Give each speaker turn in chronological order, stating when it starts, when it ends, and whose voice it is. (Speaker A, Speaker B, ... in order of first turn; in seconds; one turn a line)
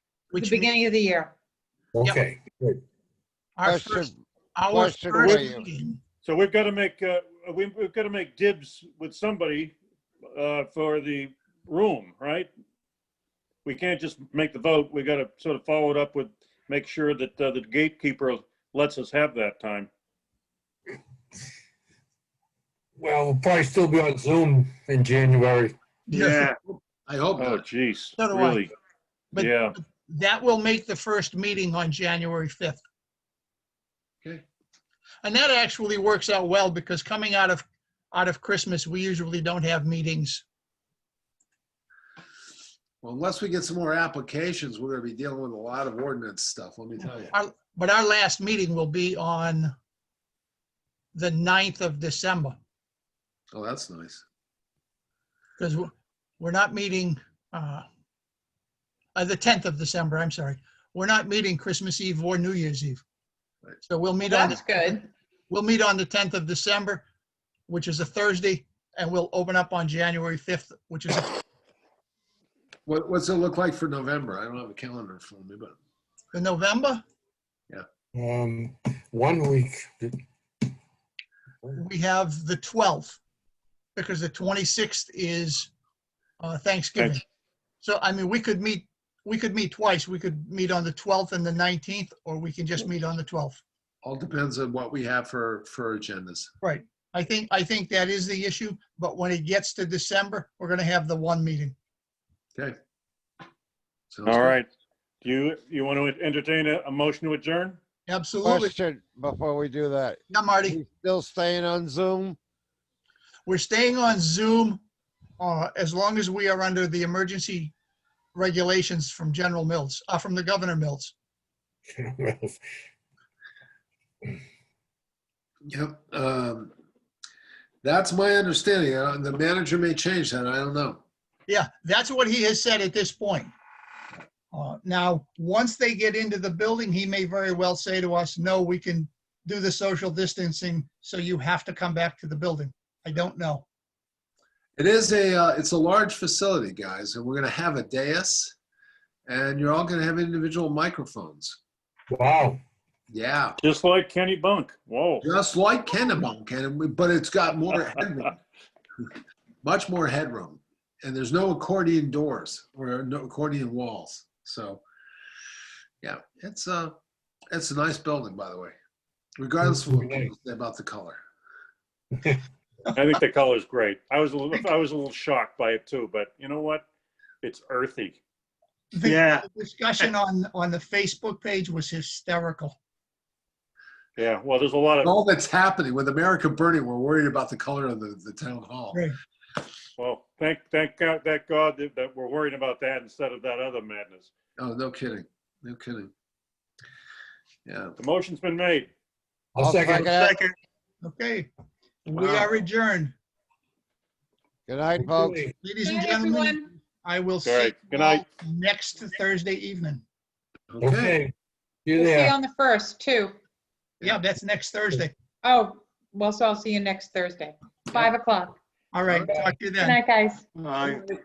Speaker A: 0.3-0.7
Speaker B: 0.3-1.3
Speaker C: 1.9-2.8
Speaker A: 3.6-6.0
Speaker D: 3.6-4.1
Speaker D: 4.7-5.6
Speaker E: 6.2-9.7
Speaker E: 10.3-12.5
Speaker E: 13.6-19.9
Speaker C: 23.0-25.7
Speaker E: 26.1-26.6
Speaker A: 26.1-26.5
Speaker F: 26.6-27.6
Speaker E: 27.4-28.7
Speaker A: 28.2-28.6
Speaker A: 29.3-32.8
Speaker E: 29.3-29.7
Speaker A: 35.2-40.4
Speaker F: 43.0-47.3
Speaker A: 47.3-49.7
Speaker A: 51.1-52.6
Speaker F: 53.5-54.2
Speaker A: 55.6-57.8
Speaker A: 59.1-63.0
Speaker A: 63.9-67.0
Speaker B: 64.2-65.1
Speaker A: 67.7-71.3
Speaker F: 72.9-75.7
Speaker A: 76.3-77.0
Speaker C: 78.1-80.2
Speaker A: 81.7-83.2
Speaker A: 84.0-85.7
Speaker A: 86.4-87.2
Speaker A: 87.8-93.6
Speaker F: 94.0-96.5
Speaker A: 96.6-101.7
Speaker F: 104.1-104.5
Speaker E: 104.2-104.7
Speaker E: 105.2-107.8
Speaker A: 108.1-108.7
Speaker D: 108.4-112.4
Speaker A: 110.3-110.8
Speaker A: 113.5-114.8
Speaker A: 115.4-117.7
Speaker A: 118.3-121.1
Speaker C: 122.0-122.6
Speaker F: 125.7-126.7
Speaker F: 127.8-131.0
Speaker A: 131.5-133.5
Speaker A: 134.5-143.6
Speaker F: 144.8-148.5
Speaker F: 149.3-151.6
Speaker C: 152.1-152.6
Speaker F: 153.1-153.6
Speaker E: 153.6-155.2
Speaker F: 155.2-158.3
Speaker F: 159.6-164.8
Speaker F: 166.0-166.9
Speaker F: 167.5-168.7
Speaker F: 169.4-171.2
Speaker C: 169.6-170.3
Speaker E: 172.9-176.8
Speaker E: 177.4-178.2
Speaker A: 178.9-182.8
Speaker E: 179.0-179.4
Speaker E: 184.2-185.1
Speaker F: 185.0-189.1
Speaker E: 190.0-194.3
Speaker F: 194.6-196.1
Speaker F: 197.7-198.0
Speaker E: 198.0-198.9
Speaker C: 199.5-200.5
Speaker D: 199.6-200.4
Speaker A: 201.0-201.5
Speaker A: 202.0-203.1
Speaker D: 204.7-205.4
Speaker C: 204.9-205.5
Speaker A: 205.6-210.0
Speaker B: 205.8-206.7
Speaker E: 207.4-208.2
Speaker F: 210.7-211.2
Speaker C: 210.8-211.3
Speaker C: 211.8-212.4
Speaker B: 211.9-213.4
Speaker A: 214.0-215.1
Speaker B: 215.4-218.6
Speaker A: 218.9-220.0
Speaker B: 219.8-221.0